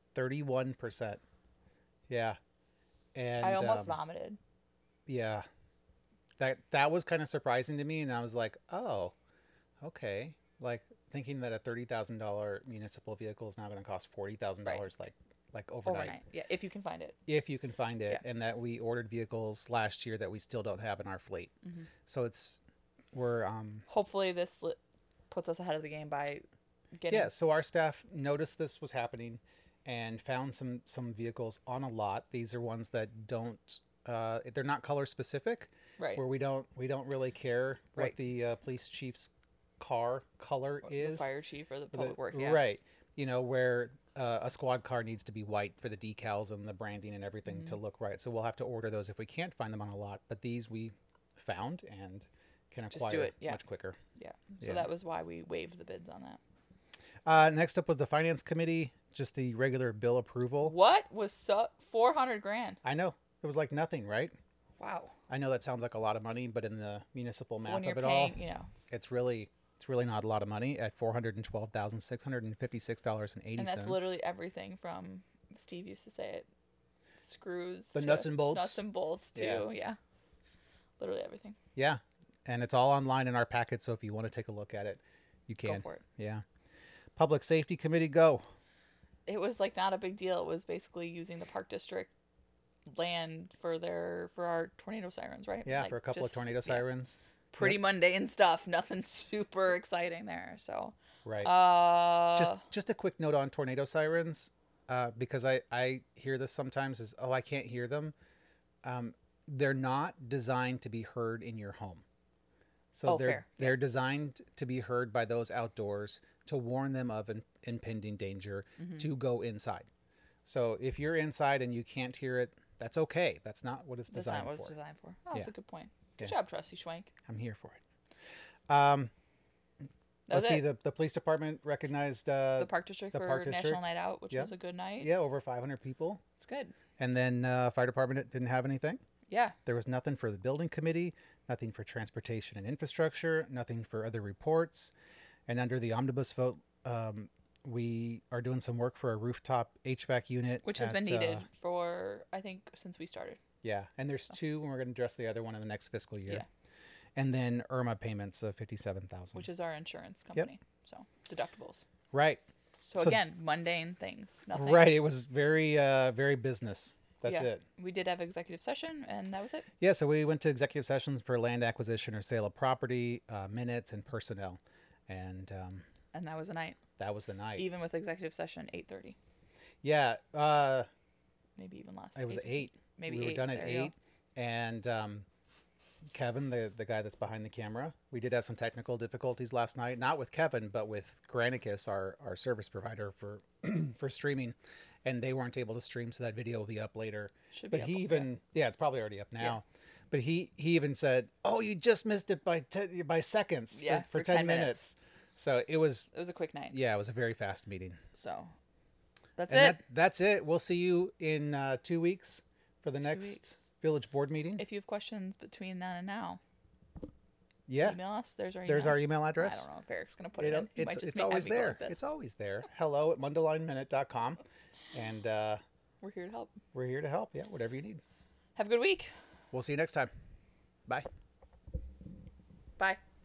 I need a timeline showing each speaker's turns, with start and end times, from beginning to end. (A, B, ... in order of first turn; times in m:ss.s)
0:00.1-0:01.2 A
0:02.1-0:02.4 A
0:03.1-0:04.0 A
0:03.4-0:04.4 B
0:05.1-0:05.4 A
0:06.4-0:09.1 A
0:09.8-0:16.2 A
0:15.8-0:17.2 B
0:17.3-0:21.5 A
0:22.0-0:22.6 A
0:23.1-0:23.8 A
0:23.9-0:24.8 B
0:25.3-0:27.3 B
0:27.1-0:41.3 A
0:40.8-0:42.6 B
0:41.9-0:54.0 A
0:52.9-0:53.6 B
0:54.1-0:56.4 B
0:54.6-0:54.9 A
0:57.2-1:00.7 A
1:00.6-1:02.8 B
1:02.8-1:04.3 A
1:04.8-1:05.1 B
1:05.3-1:08.4 A
1:07.6-1:08.7 B
1:08.9-1:14.2 A
1:13.6-1:16.5 B
1:17.2-1:20.0 B
1:17.9-1:18.8 A
1:19.3-1:19.6 A
1:21.0-1:21.6 B
1:21.8-1:26.4 A
1:25.6-1:26.0 B
1:27.2-1:28.4 A
1:29.2-1:32.1 B
1:32.9-1:36.8 B
1:35.6-1:37.8 A
1:37.5-1:42.6 B
1:41.2-1:41.5 A
1:42.3-1:48.1 A
1:48.8-1:52.0 A
1:52.9-1:59.9 A
1:53.0-1:53.8 B
2:00.4-2:04.7 A
2:04.1-2:07.1 B
2:07.2-2:07.8 A
2:08.7-2:09.1 A
2:10.3-2:10.6 B
2:10.3-2:16.2 A
2:12.6-2:15.1 B
2:16.4-2:16.7 B
2:17.0-2:19.0 A
2:19.3-2:19.6 B
2:19.6-2:24.9 A
2:25.5-2:31.4 A
2:30.6-2:33.4 B
2:33.6-2:36.4 A
2:37.2-2:39.5 A
2:39.3-2:41.8 B
2:42.1-2:42.4 A
2:42.9-2:45.0 B
2:43.0-2:43.2 A
2:44.5-2:47.6 A
2:47.2-2:49.6 B
2:49.8-2:55.8 A
2:56.1-2:56.8 B
2:57.0-2:57.6 A
2:57.5-2:59.2 B
2:59.8-3:00.9 A
3:01.6-3:03.9 B
3:02.2-3:05.2 A
3:06.1-3:26.1 A
3:17.5-3:18.3 B
3:23.7-3:24.9 B
3:26.1-3:26.8 B
3:26.7-3:28.0 A
3:28.1-3:28.5 B
3:29.4-3:29.8 B
3:29.5-3:34.6 A
3:33.0-3:33.4 B
3:34.6-3:36.4 B
3:37.7-3:38.0 A
3:37.8-3:42.0 B
3:38.6-3:39.7 A
3:40.4-3:45.6 A
3:46.0-3:46.6 B
3:46.7-3:48.0 A
3:48.6-3:49.1 B
3:49.5-3:50.1 A